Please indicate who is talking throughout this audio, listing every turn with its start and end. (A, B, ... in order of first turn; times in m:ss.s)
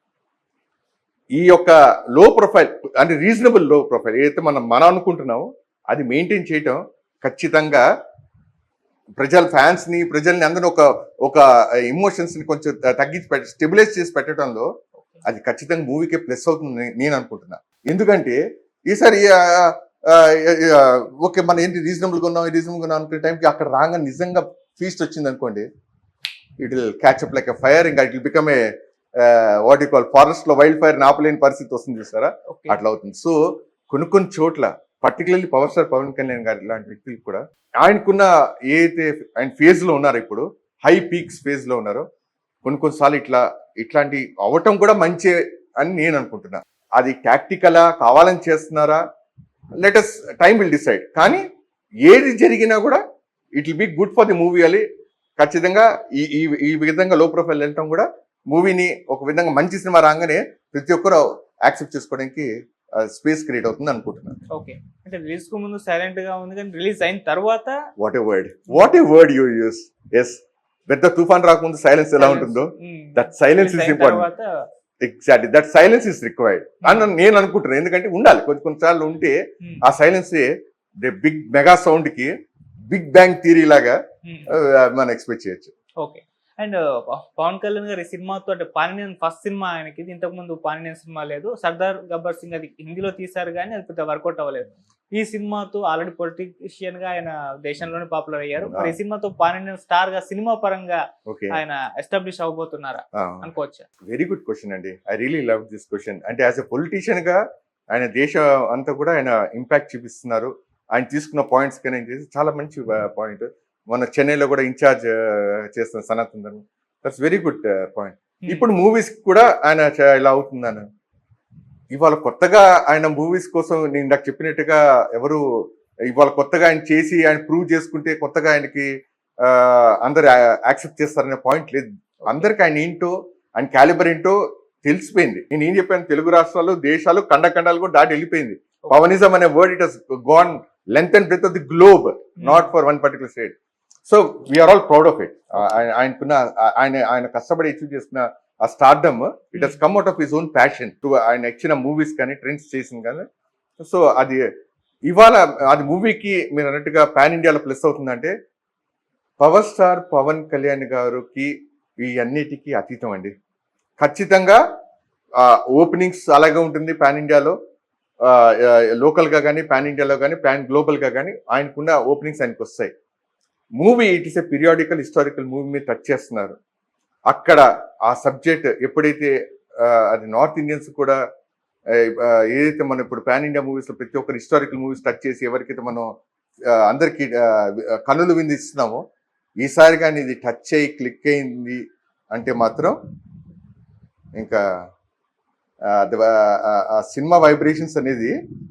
0:01.3-0:07.8 A
0:09.2-0:14.7 A
0:15.0-0:15.2 B
0:15.2-0:25.6 A
0:26.6-0:28.6 A
0:29.2-0:33.4 A
0:32.5-0:32.8 B
0:33.9-0:42.0 A
0:42.6-0:49.0 A
0:49.8-0:51.5 A
0:52.0-0:53.0 A
0:53.6-0:54.8 A
0:55.4-1:04.4 A
1:04.5-1:07.8 B
1:08.0-1:14.3 A
1:12.2-1:14.5 B
1:15.0-1:20.5 A
1:16.8-1:17.1 B
1:21.0-1:22.3 A
1:22.9-1:24.0 A
1:24.2-1:24.5 B
1:24.5-1:25.7 A
1:26.0-1:41.0 B
1:41.3-1:41.6 A
1:41.5-1:43.8 B
1:43.1-1:43.5 A
1:44.0-2:00.9 A
1:58.4-1:58.7 B
2:01.9-2:08.9 A
2:09.4-2:23.5 A
2:22.4-2:22.7 B
2:24.0-2:33.2 A
2:29.5-2:29.8 B
2:33.8-2:34.4 A
2:35.1-2:38.3 A
2:39.4-2:43.3 A
2:44.0-2:44.6 A
2:45.4-2:47.5 A
2:48.2-2:52.9 A
2:53.8-2:56.6 A
2:57.3-3:01.2 A
3:01.9-3:06.1 A
3:06.7-3:09.0 A
3:09.6-3:11.8 A
3:12.3-3:13.0 A
3:14.4-3:14.6 A
3:15.9-3:18.3 A